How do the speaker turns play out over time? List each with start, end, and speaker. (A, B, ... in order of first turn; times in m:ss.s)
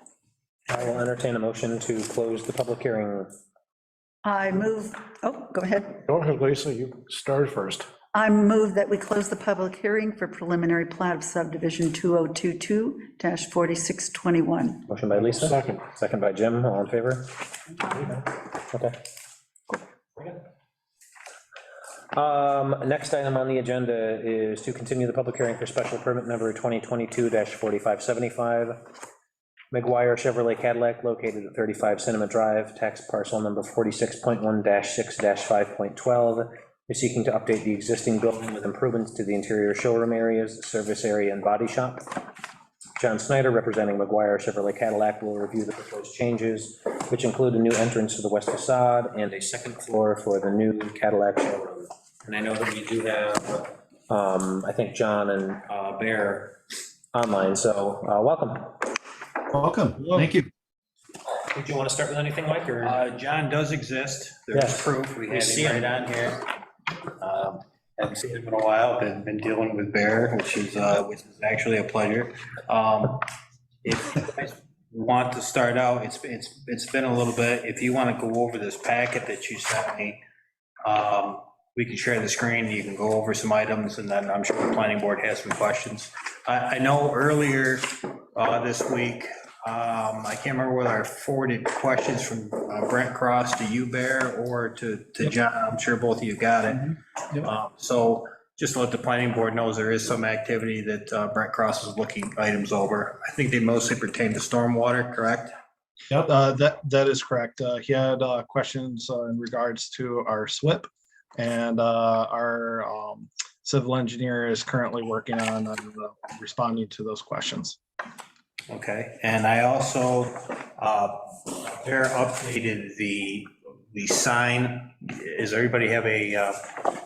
0:00.7-0:03.3 A
0:04.2-0:06.0 B
0:06.1-0:07.9 C
0:08.1-0:14.8 B
0:14.9-0:17.3 A
0:15.3-0:15.7 C
0:17.9-0:19.0 A
0:22.1-0:28.8 A
0:29.7-0:42.1 A
0:43.0-0:56.6 A
0:57.1-0:58.8 A
1:01.5-1:03.0 A
1:02.8-1:06.4 D
1:04.5-1:06.1 A
1:07.2-1:13.2 D
1:13.8-1:20.2 D
1:20.8-1:45.5 D
1:46.1-1:57.8 E
1:58.7-2:06.9 D